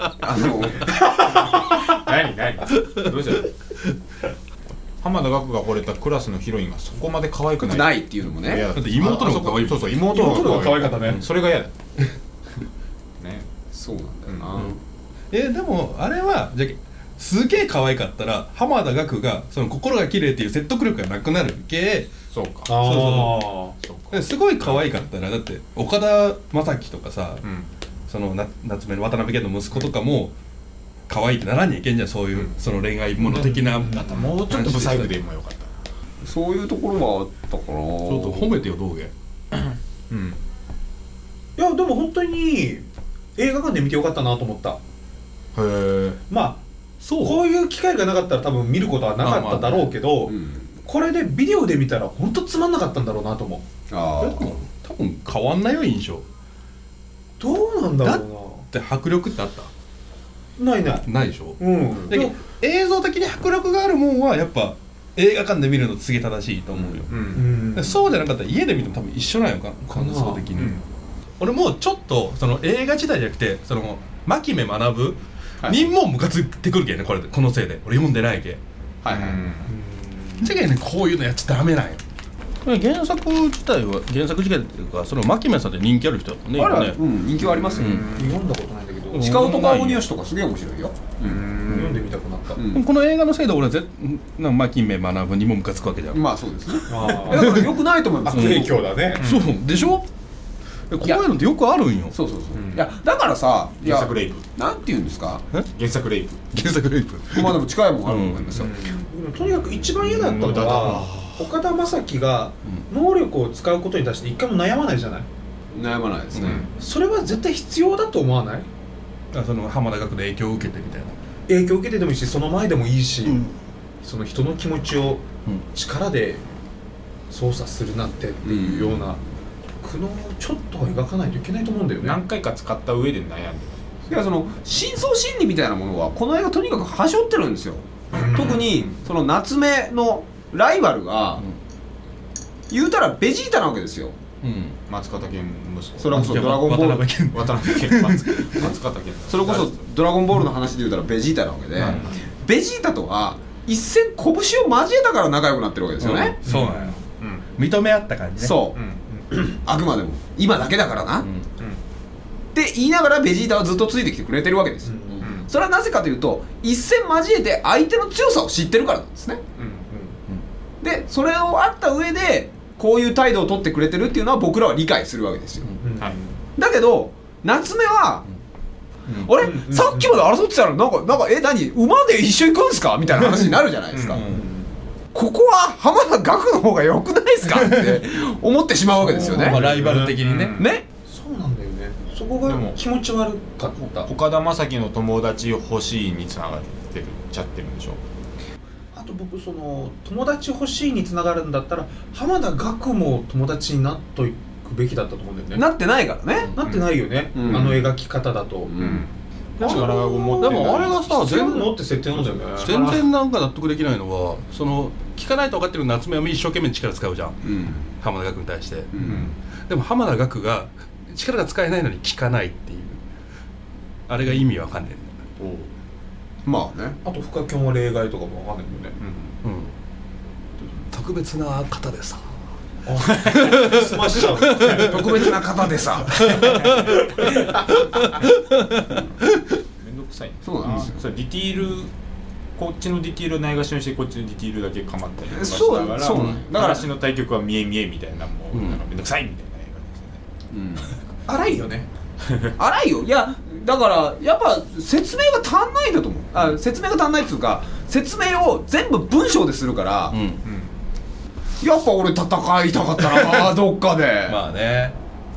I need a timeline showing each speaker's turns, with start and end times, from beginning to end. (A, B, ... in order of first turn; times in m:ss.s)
0:00.2-0:01.3 A
0:01.2-0:03.5 B
0:05.0-0:11.8 B
0:07.6-0:08.7 A
0:08.7-0:11.2 C
0:10.0-0:11.2 D
0:13.2-0:13.5 B
0:13.7-0:14.8 A
0:14.3-0:14.6 B
0:15.3-0:22.1 C
0:22.3-0:22.8 B
0:22.7-0:23.8 D
0:22.8-0:23.5 C
0:23.8-0:24.9 B
0:24.1-0:27.4 C
0:27.4-0:27.7 B
0:28.1-0:30.4 C
0:31.1-0:35.1 C
0:33.2-0:35.8 B
0:33.8-0:34.0 D
0:36.2-0:38.5 A
0:38.0-0:39.1 C
0:39.5-0:40.4 B
0:41.6-0:42.9 D
0:43.4-0:44.8 D
0:45.6-0:46.2 B
0:46.3-0:46.6 D
0:47.0-0:47.4 C
0:47.2-0:53.7 D
0:49.2-0:49.9 C
0:50.3-0:50.7 A
0:53.9-0:54.5 A
0:54.2-0:56.3 C
0:57.4-0:58.6 D
0:58.0-0:59.7 C
1:00.6-1:01.1 D
1:01.1-1:10.8 C
1:01.6-1:02.4 D
1:06.8-1:07.5 B
1:07.3-1:08.1 D
1:09.9-1:10.5 D
1:10.6-1:10.8 B
1:11.4-1:18.6 C
1:19.0-1:19.4 A
1:19.1-1:19.7 B
1:19.7-1:20.5 D
1:20.4-1:22.0 C
1:22.6-1:27.0 C
1:26.5-1:28.0 A
1:27.7-1:28.1 C
1:27.7-1:28.4 B
1:28.1-1:29.4 D
1:29.1-1:30.0 C
1:29.2-1:31.4 A
1:31.2-1:32.0 B
1:31.7-1:32.6 D
1:32.6-1:32.8 A
1:32.7-1:36.2 C
1:36.1-1:38.7 A
1:36.9-1:37.6 D
1:37.3-1:37.7 C
1:38.2-1:39.2 D
1:38.3-1:40.0 C
1:39.2-1:39.5 B
1:40.9-1:42.2 C
1:42.1-1:45.4 A
1:42.5-1:42.9 B
1:43.8-1:44.4 B
1:45.8-1:46.4 B
1:46.5-1:48.6 C
1:47.3-1:48.7 A
1:48.6-1:49.1 B
1:49.0-1:55.3 D
1:50.0-1:51.3 B
1:50.8-1:51.3 C
1:55.7-1:56.6 A
1:56.3-1:56.6 C
1:56.4-1:56.7 B
1:56.8-1:58.7 D
1:59.3-2:01.2 C
2:01.5-2:03.4 D
2:03.3-2:03.5 C
2:04.0-2:06.4 D
2:07.3-2:09.2 D
2:08.4-2:09.0 A
2:09.8-2:12.2 D
2:12.0-2:14.0 B
2:14.1-2:21.4 A
2:18.1-2:19.0 B
2:18.1-2:18.7 D
2:22.7-2:24.2 A
2:24.4-2:24.8 C
2:24.9-2:26.4 B
2:26.0-2:27.1 A
2:26.1-2:28.7 C
2:27.3-2:29.9 B
2:29.3-2:36.4 A
2:31.8-2:32.2 B
2:36.0-2:37.0 C
2:36.4-2:37.4 B
2:37.6-2:38.6 C
2:38.4-2:38.8 A
2:38.7-2:39.0 B
2:39.3-2:41.3 A
2:42.5-2:49.4 A
2:44.8-2:45.3 D
2:45.2-2:45.5 B
2:49.6-2:50.2 B
2:50.8-2:55.7 A
2:55.8-2:56.1 D
2:56.0-2:56.4 B
2:56.6-2:58.2 A
2:59.1-2:59.3 C
2:59.2-3:04.2 A
2:59.4-3:00.2 D
3:03.9-3:04.2 B
3:04.1-3:04.4 C
3:05.1-3:09.6 A
3:07.5-3:08.1 C
3:09.0-3:09.6 D
3:09.2-3:10.6 C
3:09.4-3:10.7 B
3:10.6-3:10.8 A
3:11.1-3:14.1 D
3:12.4-3:12.8 B
3:14.0-3:18.0 B
3:18.9-3:25.6 D
3:25.5-3:26.5 A
3:26.6-3:28.7 D
3:26.6-3:26.9 B
3:27.3-3:27.7 A
3:27.4-3:27.9 B
3:28.7-3:29.0 A
3:28.8-3:31.1 B
3:29.6-3:33.0 D
3:29.6-3:31.8 C
3:32.2-3:33.1 B
3:32.6-3:37.4 C
3:37.4-3:37.9 A
3:38.0-3:38.9 C
3:38.9-3:39.3 A
3:39.0-3:39.4 B
3:39.7-3:43.0 C
3:44.1-3:45.2 C
3:45.4-3:45.7 B
3:46.4-3:47.0 A
3:47.0-3:49.0 D
3:49.0-3:49.4 B
3:49.4-3:49.7 C
3:50.9-3:52.3 C
3:52.9-3:55.1 D
3:53.0-3:53.4 B
3:53.2-3:55.4 C
3:54.8-3:56.6 A
3:56.1-3:57.2 C
3:56.2-3:58.2 B
3:56.8-3:57.6 D
3:58.4-3:59.0 C
3:59.8-4:01.9 B
4:00.4-4:01.0 A
4:02.6-4:10.2 B
4:05.3-4:06.9 A
4:06.1-4:06.4 C
4:08.5-4:08.8 C
4:10.5-4:10.9 A
4:11.3-4:11.9 D
4:12.2-4:12.6 B
4:12.6-4:20.2 A
4:20.1-4:20.4 C
4:20.4-4:20.7 B
4:21.6-4:24.4 A
4:23.1-4:23.5 C
4:24.3-4:25.0 C